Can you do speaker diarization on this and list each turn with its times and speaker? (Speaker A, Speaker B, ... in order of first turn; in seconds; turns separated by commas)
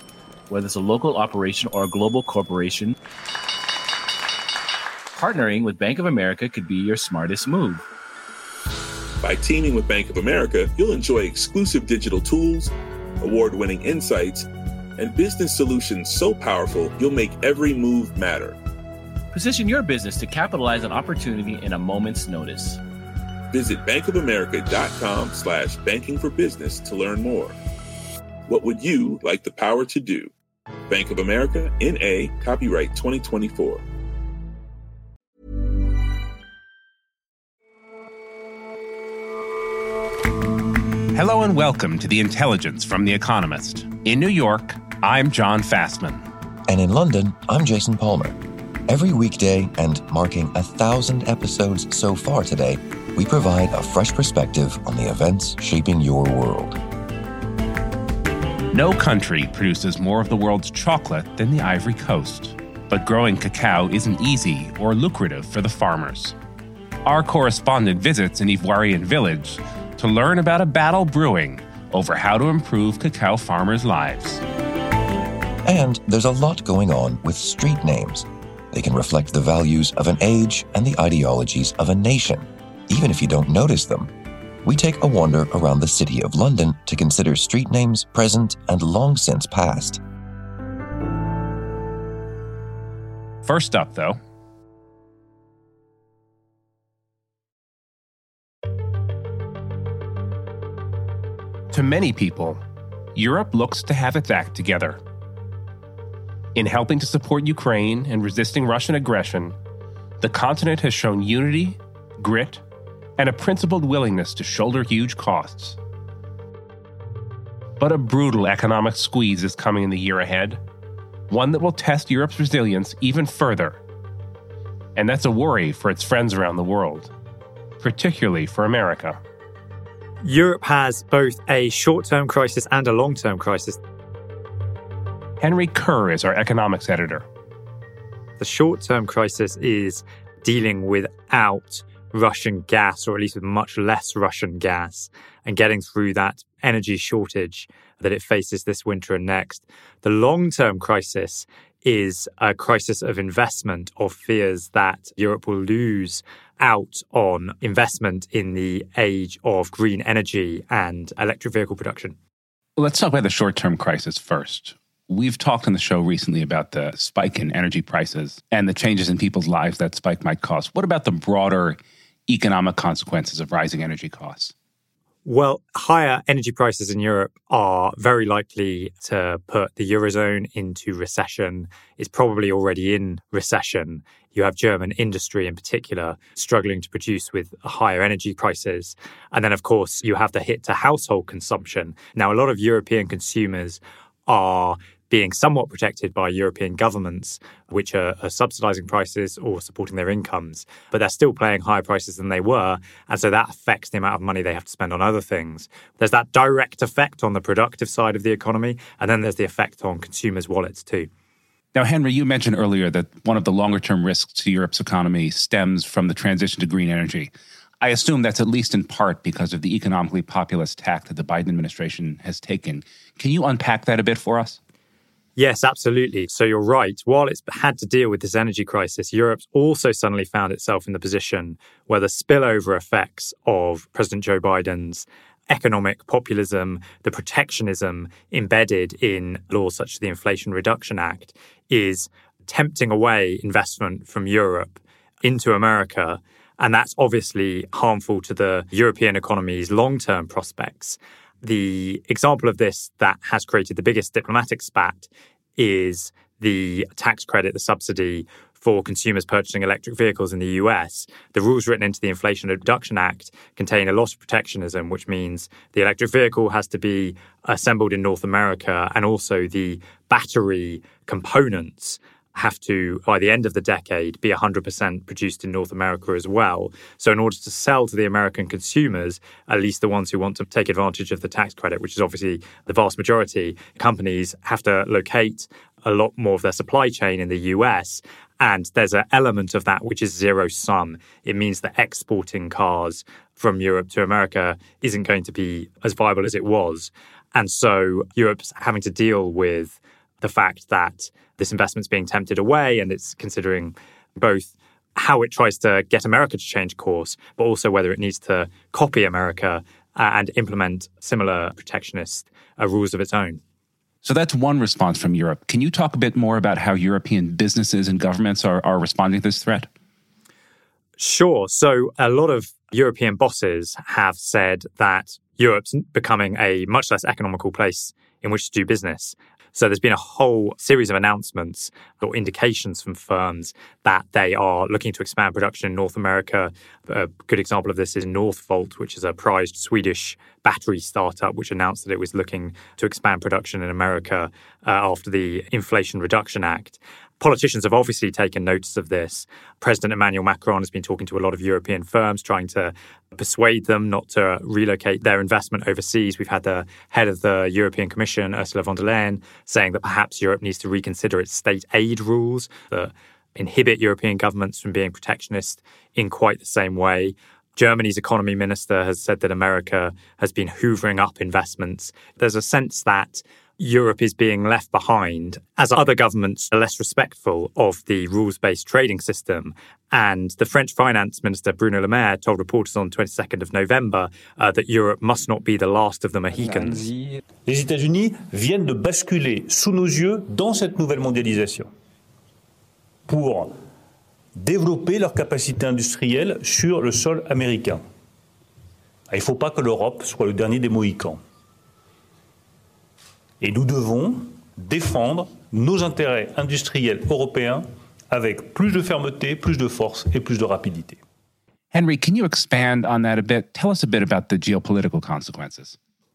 Speaker A: 0.5-2.9, Speaker A: 5.1-7.8, Speaker B: 9.2-14.5, Speaker B: 15.0-18.6, Speaker A: 19.3-22.8, Speaker B: 23.5-27.6, Speaker B: 28.5-30.3, Speaker B: 30.9-33.8, Speaker C: 41.1-46.2, Speaker D: 46.7-56.8, Speaker C: 58.7-66.3, Speaker C: 67.0-74.4, Speaker D: 75.6-84.1, Speaker D: 84.6-90.0, Speaker C: 93.4-94.2, Speaker C: 101.7-102.6, Speaker C: 103.1-105.0, Speaker C: 106.5-109.5, Speaker C: 110.2-112.6, Speaker C: 113.2-115.8, Speaker C: 117.8-120.6, Speaker C: 121.3-123.8, Speaker C: 125.0-127.1, Speaker C: 127.8-129.2, Speaker E: 130.2-133.8, Speaker C: 135.4-137.2, Speaker E: 138.4-162.2, Speaker C: 162.8-174.5, Speaker E: 175.2-211.1, Speaker C: 211.7-224.6, Speaker E: 225.4-313.4, Speaker C: 314.0-319.7, Speaker E: 321.0-386.9, Speaker F: 387.4-391.7, Speaker F: 393.1-393.5, Speaker F: 394.4-397.8, Speaker F: 399.1-401.2, Speaker F: 403.4-411.0, Speaker C: 411.7-415.8